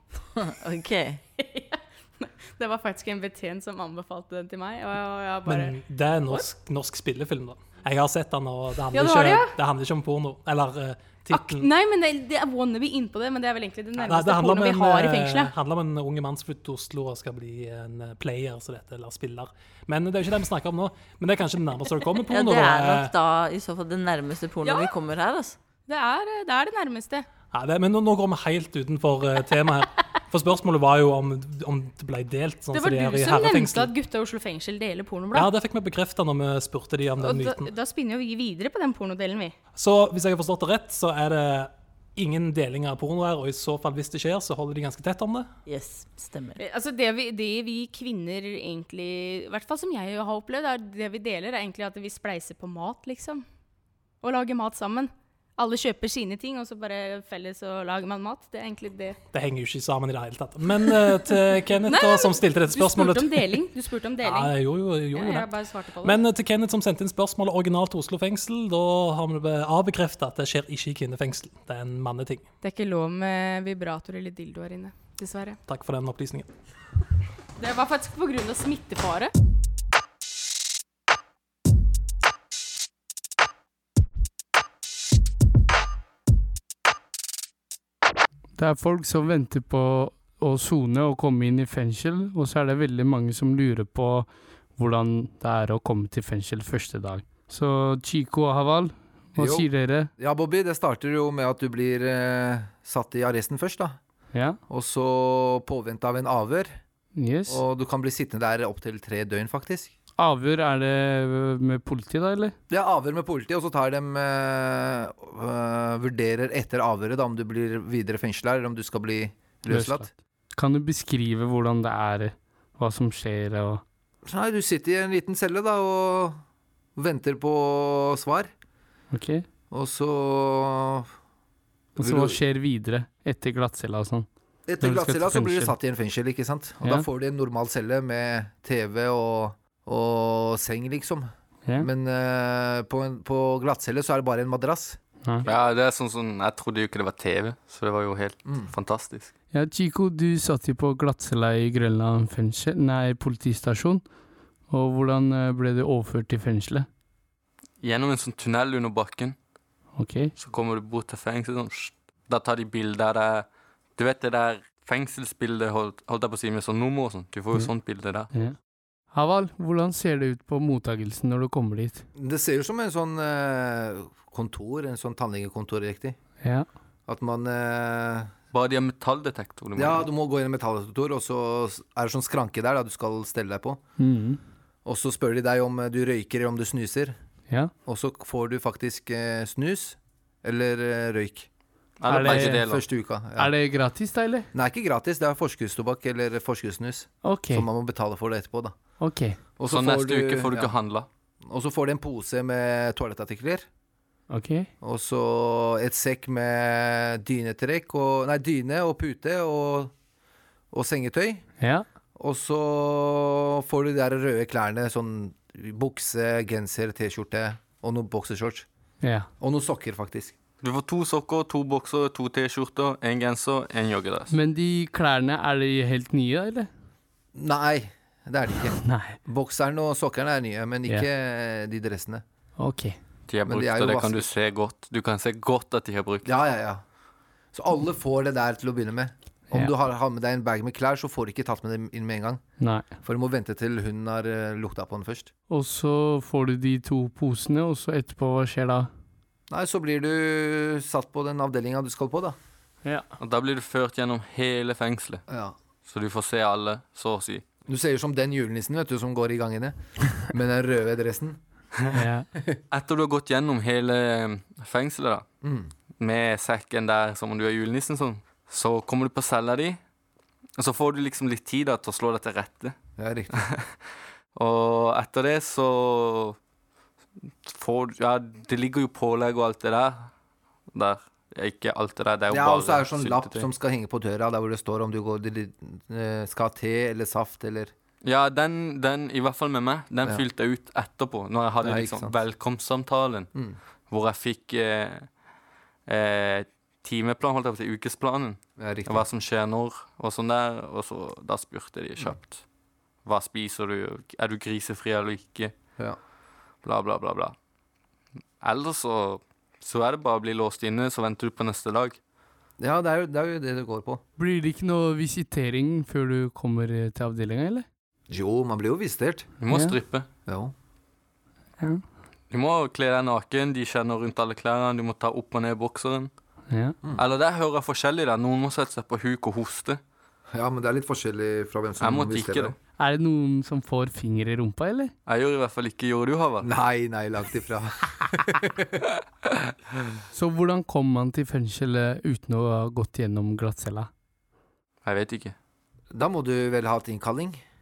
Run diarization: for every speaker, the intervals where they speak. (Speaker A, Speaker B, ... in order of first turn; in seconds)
Speaker A: 0.4-1.2, 22.3-25.6, 45.7-46.6
Speaker B: 1.4-6.4, 8.9-9.6, 11.3-15.5, 24.6-24.9, 25.9-27.3, 32.7-35.5, 37.2-39.5, 46.6-53.4, 54.2-59.2, 61.9-64.6, 65.1-66.2, 72.6-75.6, 77.6-79.3
Speaker C: 5.5-11.7, 14.0-23.1, 27.5-33.9, 35.3-37.7, 39.8-45.5, 59.3-63.6, 64.2-72.5, 75.7-76.5
Speaker D: 88.5-100.1, 104.3-104.6, 107.2-107.6, 110.2-112.5, 119.7-123.8, 129.1-129.5, 132.0-134.3, 134.8-135.8, 149.5-154.0, 154.7-156.9, 160.0-160.3, 168.3-172.1, 176.4-176.7, 184.0-184.4, 192.1-192.7, 193.4-194.5, 197.2-197.7, 199.0-199.4, 204.3-204.7, 211.6-211.8, 219.0-219.3, 224.3-226.7, 228.8-229.2, 232.6-233.0, 242.6-242.9, 245.5-248.9, 261.9-262.3, 314.2-317.7, 319.5-319.8, 326.5-326.8, 332.8-334.9, 340.1-343.9
Speaker E: 99.4-104.0, 104.7-106.8, 107.5-109.9, 112.7-120.1, 124.2-126.4, 127.0-128.5, 129.7-131.1, 132.0-132.4, 134.7-145.6, 148.5-148.7, 172.2-176.2, 177.1-178.3, 179.8-183.8, 184.8-187.2, 187.9-191.5, 192.2-193.5, 194.5-198.8, 199.6-200.7, 201.4-203.7, 204.8-209.9, 210.7-211.5, 212.2-218.7, 219.4-220.3, 227.3-232.2, 233.5-234.3, 236.2-236.8, 237.5-242.4, 243.0-245.3, 249.5-252.4, 255.3-255.6, 257.7-261.4, 265.4-265.7, 273.0-273.4, 282.3-287.7, 291.6-292.2, 298.6-299.1, 312.6-314.0, 318.1-319.3, 320.3-320.5, 330.3-332.6, 336.4-338.6, 345.9-347.4
Speaker F: 145.4-149.3, 157.8-159.4, 160.4-168.3, 178.5-180.1, 192.0-192.8, 199.7-201.1, 220.6-224.3, 233.3-236.3, 253.2-255.2, 255.8-257.4, 262.7-265.2, 266.0-269.8, 270.6-272.8, 273.4-273.8, 274.4-276.4, 277.4-280.1, 280.7-283.5, 288.0-293.3, 293.9-295.1, 295.9-302.4, 303.0-305.5, 306.6-307.4, 308.4-312.0, 319.4-320.1, 322.3-326.1, 327.0-329.8, 331.8-332.6, 335.1-336.5, 344.8-345.3